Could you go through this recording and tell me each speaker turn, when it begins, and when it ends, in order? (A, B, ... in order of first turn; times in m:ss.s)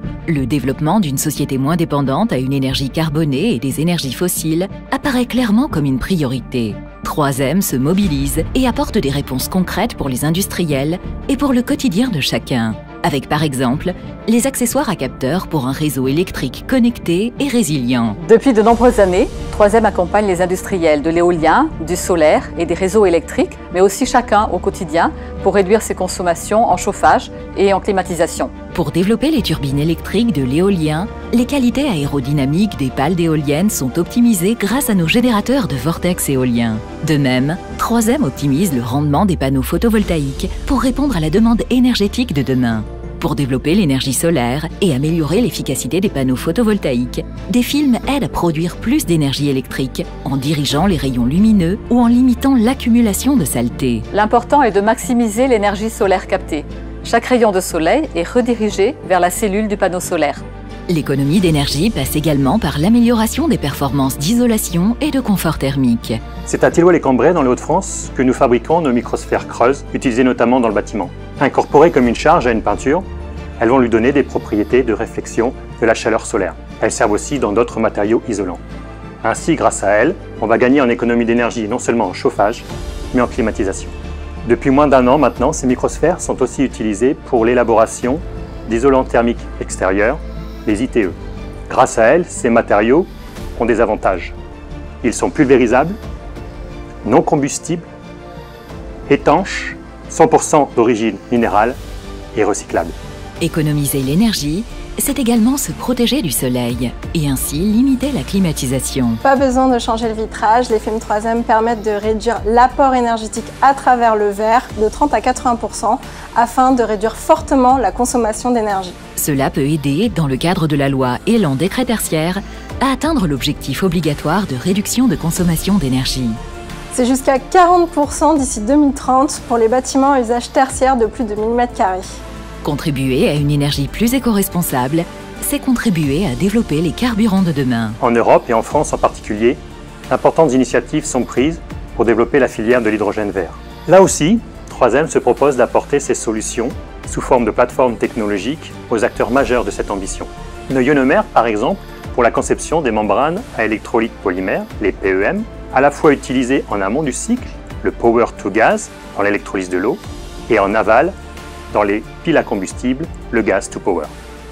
0:00.3-0:18.2 A
0:18.2-0:28.5 B
0:28.7-0:54.1 A
0:54.1-1:00.4 B
1:00.9-1:06.2 A
1:06.4-1:13.0 C
1:13.6-1:18.6 C
1:19.2-1:23.9 C
1:24.4-1:31.2 C
1:31.7-1:34.4 C
1:35.0-1:36.0 C
1:37.0-1:37.9 C
1:39.1-1:41.8 C
1:42.3-1:42.9 C
1:43.4-1:49.2 A
1:49.2-1:58.9 D
1:59.2-2:06.4 A
2:06.9-2:12.0 D
2:12.6-2:18.0 A
2:18.0-2:41.2 C
2:41.7-2:44.1 C